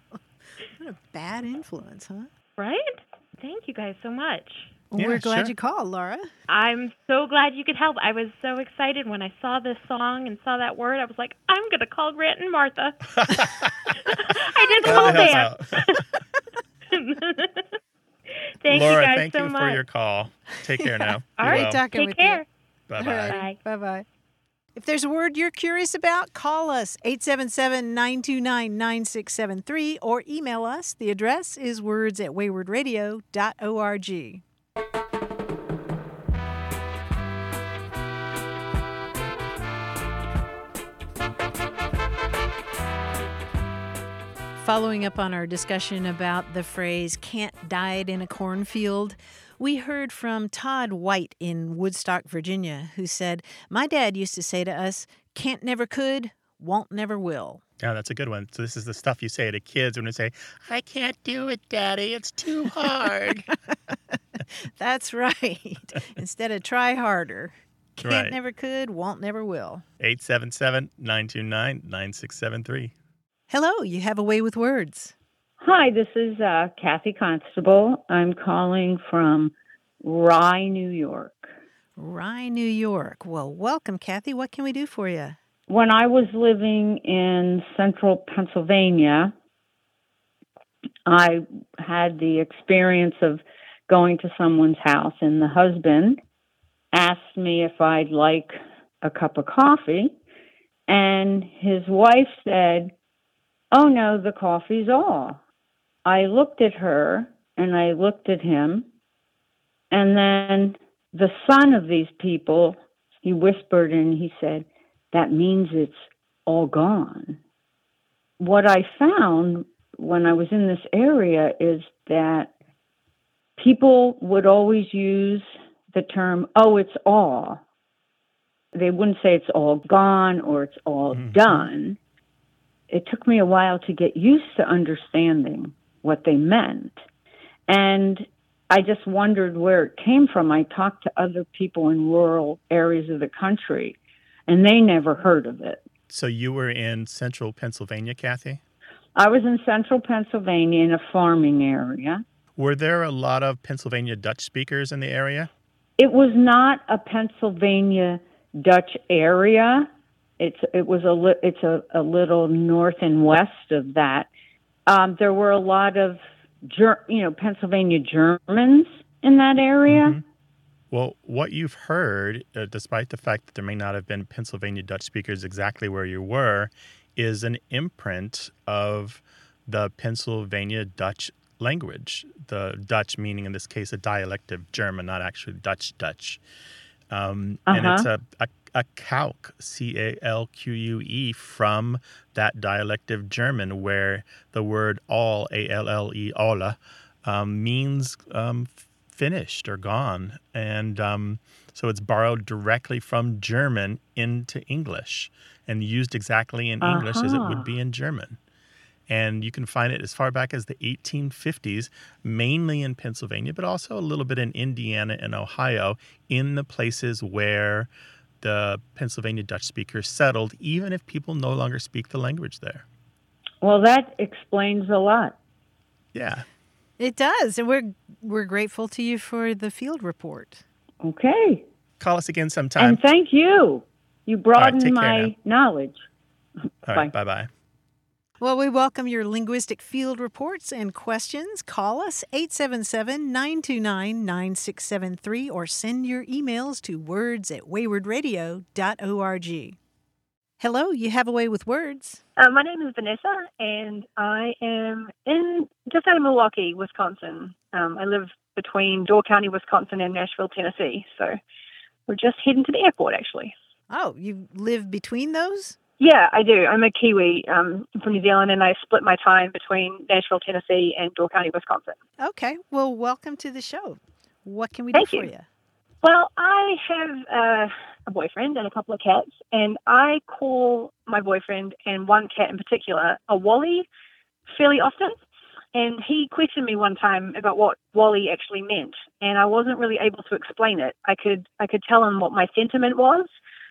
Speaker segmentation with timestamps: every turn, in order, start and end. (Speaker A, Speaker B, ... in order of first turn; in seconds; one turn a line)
Speaker A: 0.8-2.3
Speaker B: 2.6-4.8
Speaker A: 4.9-6.3
Speaker C: 5.0-5.5
Speaker B: 6.5-13.6
Speaker C: 13.2-13.7
Speaker B: 14.1-16.0
Speaker A: 14.8-15.5
Speaker C: 14.8-15.8
Speaker B: 16.9-17.6
Speaker B: 18.6-19.8
Speaker C: 18.7-21.8
Speaker B: 21.4-22.5
Speaker A: 21.4-22.4
Speaker C: 22.9-23.4
Speaker A: 23.0-24.1
Speaker B: 23.3-23.6
Speaker A: 24.8-34.4
Speaker A: 44.6-57.6
Speaker C: 57.8-63.5
Speaker A: 64.4-69.8
Speaker C: 68.0-68.4
Speaker C: 70.0-72.9
Speaker A: 73.5-75.1
Speaker D: 75.6-81.5
Speaker A: 82.0-85.4
Speaker D: 85.7-89.3
Speaker D: 91.1-96.2
Speaker D: 96.9-100.2
Speaker D: 100.9-102.9
Speaker D: 103.7-105.4
Speaker D: 106.0-108.9
Speaker D: 109.9-117.4
Speaker D: 118.4-122.5
Speaker D: 123.6-127.6
Speaker D: 128.7-132.0
Speaker C: 131.1-131.7
Speaker D: 132.9-137.0
Speaker D: 137.7-145.8
Speaker C: 146.1-148.6
Speaker D: 149.2-152.2
Speaker C: 152.6-155.5
Speaker D: 156.0-164.3
Speaker D: 164.9-170.2
Speaker C: 169.9-170.2
Speaker C: 170.9-186.4
Speaker C: 187.1-208.4
Speaker D: 187.7-188.0
Speaker D: 206.8-207.7
Speaker C: 209.1-217.9
Speaker C: 218.4-222.9
Speaker D: 223.6-225.4
Speaker C: 226.1-226.5
Speaker A: 227.0-230.6
Speaker D: 231.0-231.7
Speaker C: 232.0-233.0
Speaker D: 232.8-236.1
Speaker C: 234.6-235.3
Speaker C: 236.9-237.5
Speaker D: 236.9-237.1
Speaker A: 238.4-249.8
Speaker A: 250.6-252.2
Speaker E: 252.4-261.4
Speaker E: 262.1-263.5
Speaker A: 263.9-265.8
Speaker E: 266.0-272.0
Speaker A: 272.2-275.5
Speaker E: 274.9-275.3
Speaker E: 276.0-283.9
Speaker E: 284.5-285.2
Speaker E: 285.7-293.3